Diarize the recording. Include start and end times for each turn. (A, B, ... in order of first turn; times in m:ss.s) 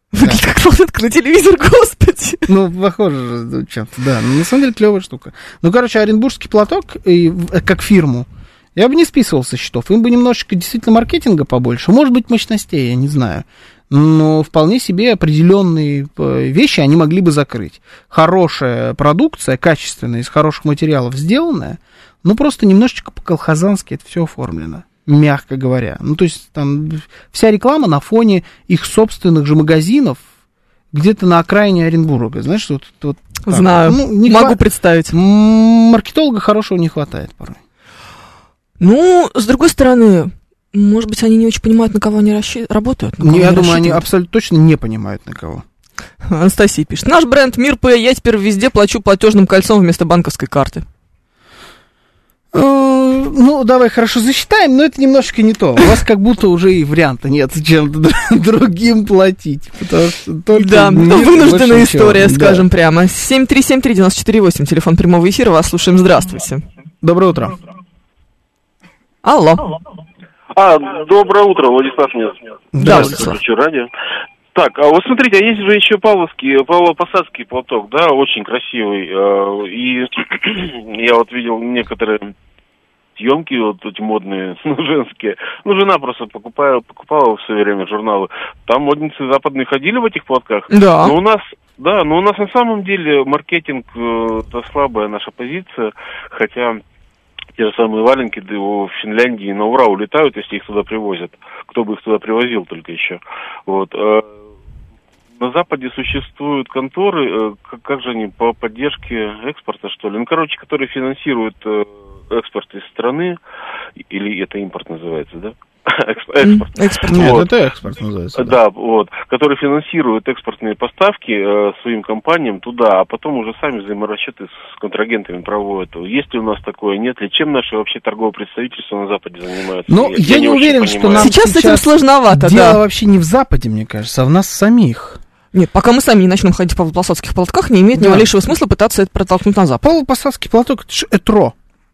0:00.1-0:02.5 A
0:02.5-0:30.2 B
0:30.9-0:37.6 B
0:33.5-0:35.1 A
0:38.8-0:44.1 A
0:43.2-0:45.6 B
0:46.2-0:50.8 A
0:52.5-1:02.7 B
1:00.5-1:06.6 A
1:07.0-1:07.6 B
1:09.2-1:09.7 A
1:10.5-1:13.9 C
1:12.7-1:13.3 B
1:12.8-1:13.4 A
1:14.5-1:22.3 C
1:23.2-1:36.8 C
1:30.7-1:31.2 A
1:37.6-1:44.3 C
1:45.4-1:53.4 C
1:54.0-1:57.5 C
1:56.4-1:57.4 A
1:57.1-1:58.6 B
1:58.3-2:11.3 C
2:09.9-2:15.2 B
2:11.2-2:12.8 A
2:15.5-2:19.9 A
2:18.0-2:18.3 B
2:19.8-2:21.5 B